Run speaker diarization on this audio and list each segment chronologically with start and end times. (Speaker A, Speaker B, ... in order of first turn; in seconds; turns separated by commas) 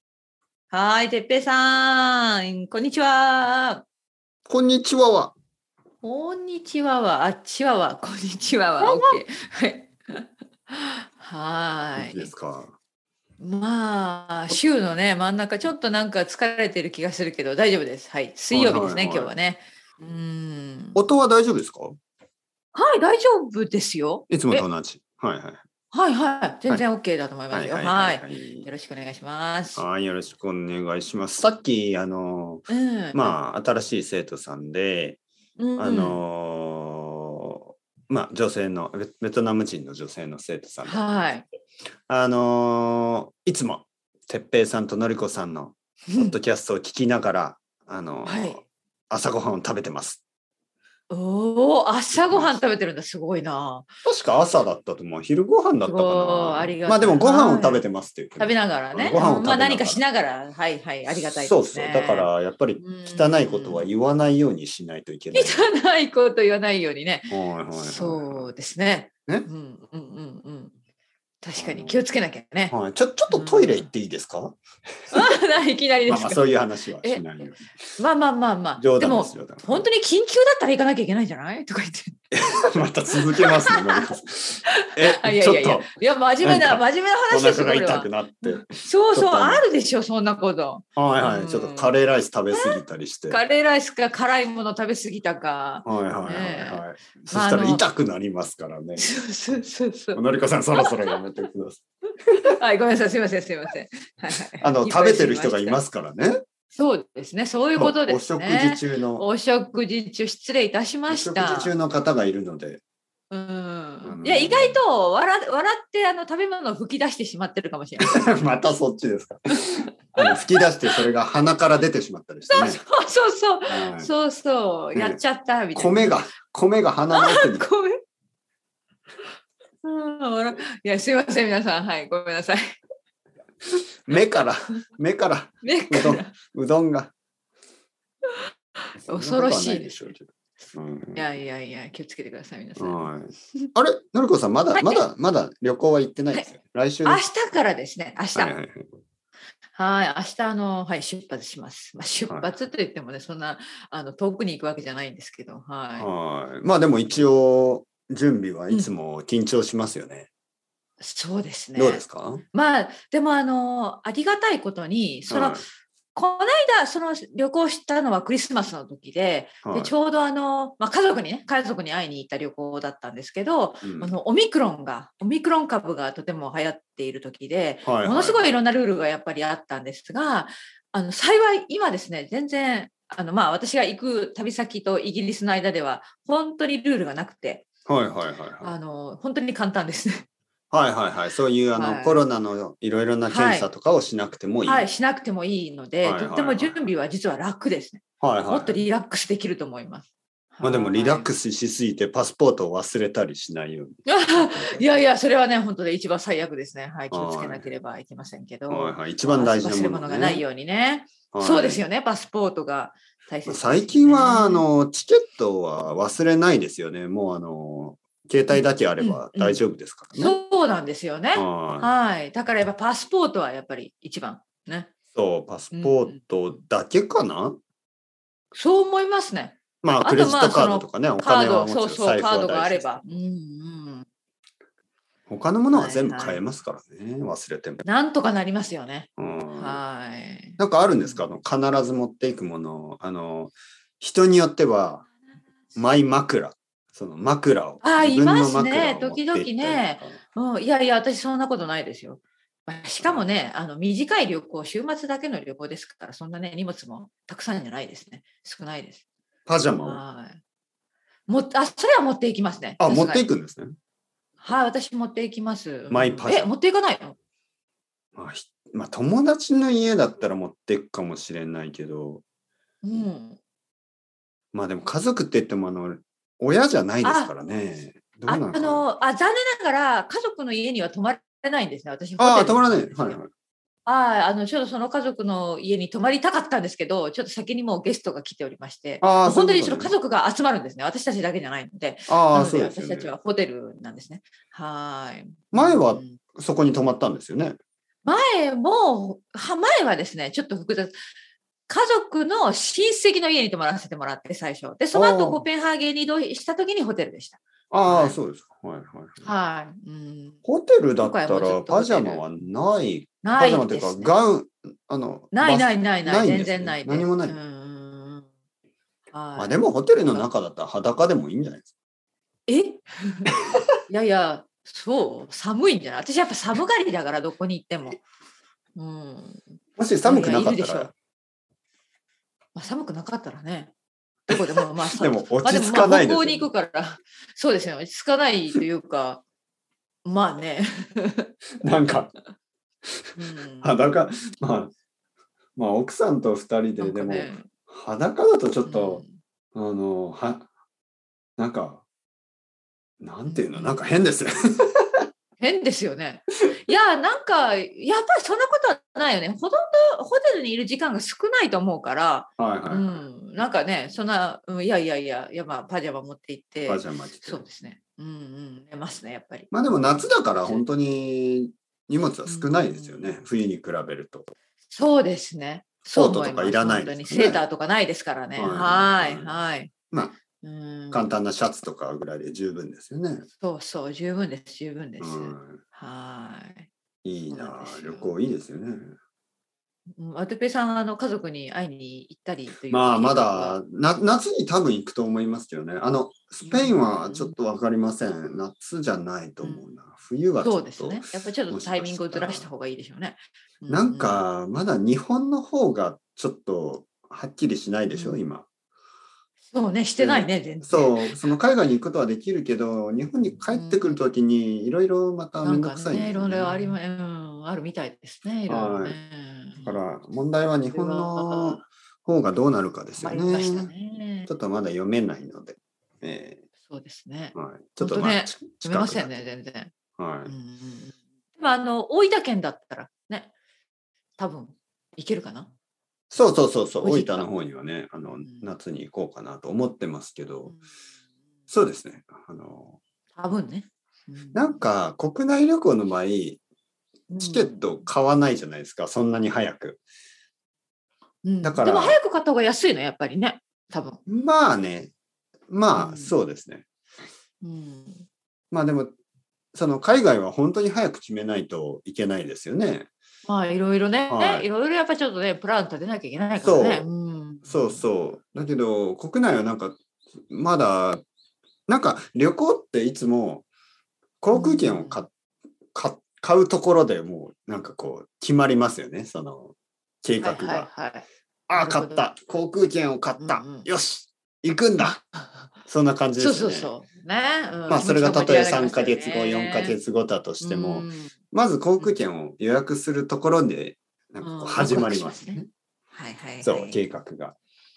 Speaker A: 0.7-3.8, Speaker B: 4.5-5.3, Speaker A: 6.0-12.3, Speaker B: 8.8-9.2, Speaker B: 11.9-12.7, Speaker A: 13.4-21.0, Speaker B: 18.5-19.3, Speaker B: 20.9-22.0, Speaker A: 22.7-24.6, Speaker B: 24.3-25.6, Speaker A: 25.9-29.8, Speaker B: 27.5-28.7, Speaker B: 29.8-35.2, Speaker A: 32.7-33.4, Speaker A: 35.6-36.2, Speaker B: 35.8-41.3, Speaker A: 40.9-41.5, Speaker B: 42.1-50.2, Speaker A: 46.1-46.4, Speaker A: 48.2-48.6, Speaker A: 51.1-53.9, Speaker B: 52.1-52.6, Speaker B: 54.0-60.0, Speaker A: 55.8-57.8, Speaker A: 58.4-62.3, Speaker B: 61.1-65.7, Speaker A: 62.8-63.8, Speaker A: 65.3-70.7, Speaker B: 67.3-68.5, Speaker A: 71.4-72.8, Speaker B: 71.5-72.0, Speaker B: 72.7-75.4, Speaker A: 73.3-73.9, Speaker A: 75.1-76.5, Speaker B: 76.1-77.7, Speaker A: 77.0-82.2, Speaker B: 78.8-79.8, Speaker B: 82.3-85.9, Speaker A: 83.1-84.1, Speaker A: 84.7-91.9, Speaker B: 86.4-89.6, Speaker B: 91.0-93.4, Speaker A: 92.5-92.8, Speaker A: 93.3-97.8, Speaker B: 95.8-99.1, Speaker A: 99.0-100.2, Speaker B: 100.1-101.8, Speaker A: 100.7-101.2, Speaker A: 102.4-105.8, Speaker B: 104.6-106.4, Speaker A: 106.7-111.7, Speaker B: 107.8-109.2, Speaker B: 111.1-112.8, Speaker A: 113.3-118.4, Speaker B: 114.0-114.8, Speaker B: 118.0-122.8, Speaker A: 119.6-121.0, Speaker A: 122.5-126.3, Speaker B: 123.7-124.1, Speaker B: 124.9-125.2, Speaker B: 125.7-127.7, Speaker A: 127.1-128.0, Speaker A: 129.8-132.8, Speaker B: 134.1-137.1, Speaker A: 135.6-136.3, Speaker A: 139.0-139.9, Speaker B: 139.0-141.2, Speaker A: 141.1-143.7, Speaker B: 142.8-147.2, Speaker A: 144.7-145.0, Speaker A: 147.0-148.5, Speaker B: 148.3-148.9, Speaker A: 149.7-156.1, Speaker B: 156.0-160.3, Speaker A: 161.0-187.7, Speaker B: 161.8-162.4, Speaker B: 165.3-165.6, Speaker B: 169.6-169.9, Speaker B: 173.8-174.1, Speaker B: 177.8-178.4, Speaker B: 187.8-188.8, Speaker A: 188.6-190.2, Speaker B: 190.7-194.9, Speaker A: 191.7-192.2, Speaker A: 193.3-193.7, Speaker A: 194.6-201.3, Speaker B: 196.0-196.9, Speaker B: 198.2-198.8, Speaker B: 200.6-204.8, Speaker A: 204.1-214.7, Speaker B: 207.1-207.7, Speaker B: 208.7-210.4, Speaker B: 211.3-211.8, Speaker B: 213.4-220.3, Speaker A: 218.5-219.6, Speaker A: 220.1-224.9, Speaker B: 221.3-221.9, Speaker B: 225.1-227.6, Speaker A: 225.7-226.2, Speaker A: 228.5-234.1, Speaker B: 229.8-233.2, Speaker B: 235.3-237.8, Speaker A: 235.7-236.4, Speaker A: 237.8-241.2, Speaker B: 239.2-239.8, Speaker B: 240.6-245.1, Speaker B: 245.7-250.2, Speaker A: 247.8-259.0, Speaker B: 259.5-260.0, Speaker A: 259.8-260.4, Speaker A: 261.3-263.2, Speaker B: 262.8-263.8, Speaker A: 264.4-267.1, Speaker B: 265.9-266.5, Speaker B: 268.1-272.2, Speaker A: 272.8-273.4, Speaker B: 274.5-278.8, Speaker A: 277.0-277.3, Speaker A: 278.3-283.2, Speaker B: 282.2-283.3, Speaker A: 283.9-296.2, Speaker B: 289.0-289.9, Speaker B: 292.1-293.1, Speaker B: 295.5-297.6, Speaker A: 298.0-301.0, Speaker A: 301.7-308.2, Speaker B: 304.9-305.4, Speaker B: 307.7-309.3, Speaker A: 309.2-310.4, Speaker B: 310.4-317.4, Speaker A: 311.0-312.2, Speaker A: 313.2-314.1, Speaker A: 315.3-318.3, Speaker A: 319.1-320.3, Speaker B: 319.4-321.7, Speaker A: 322.5-323.3, Speaker A: 323.9-328.0, Speaker A: 328.8-330.9, Speaker B: 329.8-330.9, Speaker A: 332.5-333.7, Speaker B: 334.3-336.5, Speaker A: 334.3-339.2, Speaker A: 340.0-341.3, Speaker B: 341.6-342.1, Speaker B: 342.9-344.7, Speaker A: 343.1-343.8, Speaker B: 345.6-349.0, Speaker A: 346.8-347.5, Speaker A: 348.6-349.2, Speaker B: 349.5-350.5, Speaker B: 351.4-351.8, Speaker B: 353.0-355.1, Speaker A: 353.3-353.8, Speaker A: 355.4-369.5, Speaker B: 362.4-363.0, Speaker B: 366.7-367.4, Speaker B: 369.5-374.3, Speaker A: 372.2-373.1, Speaker A: 374.7-379.7, Speaker B: 375.9-377.4, Speaker B: 378.4-379.3, Speaker B: 379.9-380.2, Speaker A: 380.4-381.1, Speaker B: 380.9-383.2, Speaker A: 383.4-386.7, Speaker B: 385.0-385.6, Speaker B: 387.0-388.9, Speaker A: 387.3-388.1, Speaker A: 390.0-393.6, Speaker B: 392.7-402.5, Speaker A: 396.4-397.3, Speaker A: 399.4-399.7, Speaker A: 400.4-404.2, Speaker B: 403.7-408.5, Speaker A: 407.9-408.2, Speaker A: 409.5-411.3, Speaker B: 410.0-416.8, Speaker A: 413.5-414.0, Speaker A: 415.4-419.8, Speaker B: 418.5-418.9, Speaker B: 419.6-423.7, Speaker A: 420.7-421.6, Speaker A: 423.0-424.3, Speaker B: 424.3-426.4, Speaker A: 426.7-429.7, Speaker B: 427.3-429.1, Speaker B: 430.0-430.3, Speaker A: 430.2-433.3, Speaker A: 434.2-435.5, Speaker B: 436.1-440.5, Speaker A: 436.8-437.3, Speaker A: 438.2-438.5, Speaker B: 441.5-442.8, Speaker A: 443.1-444.6, Speaker B: 444.3-446.4, Speaker A: 447.1-447.8, Speaker B: 447.2-449.8, Speaker A: 451.2-454.0, Speaker B: 451.4-452.0, Speaker B: 454.1-454.9, Speaker B: 455.5-456.6, Speaker A: 455.7-456.1, Speaker A: 457.4-458.1, Speaker B: 458.5-458.9, Speaker B: 459.5-462.9, Speaker A: 463.2-467.8, Speaker B: 464.1-464.5, Speaker B: 466.4-466.9, Speaker B: 467.4-471.0, Speaker B: 471.7-473.4, Speaker B: 474.2-475.1, Speaker A: 474.3-475.0, Speaker B: 475.7-480.7, Speaker A: 480.2-482.1, Speaker B: 481.5-485.0, Speaker A: 483.2-483.7, Speaker A: 484.8-485.5, Speaker B: 485.6-486.7, Speaker A: 486.2-489.8, Speaker B: 487.7-495.5, Speaker A: 490.4-491.1, Speaker A: 494.2-495.4, Speaker A: 495.9-496.8, Speaker B: 496.4-497.4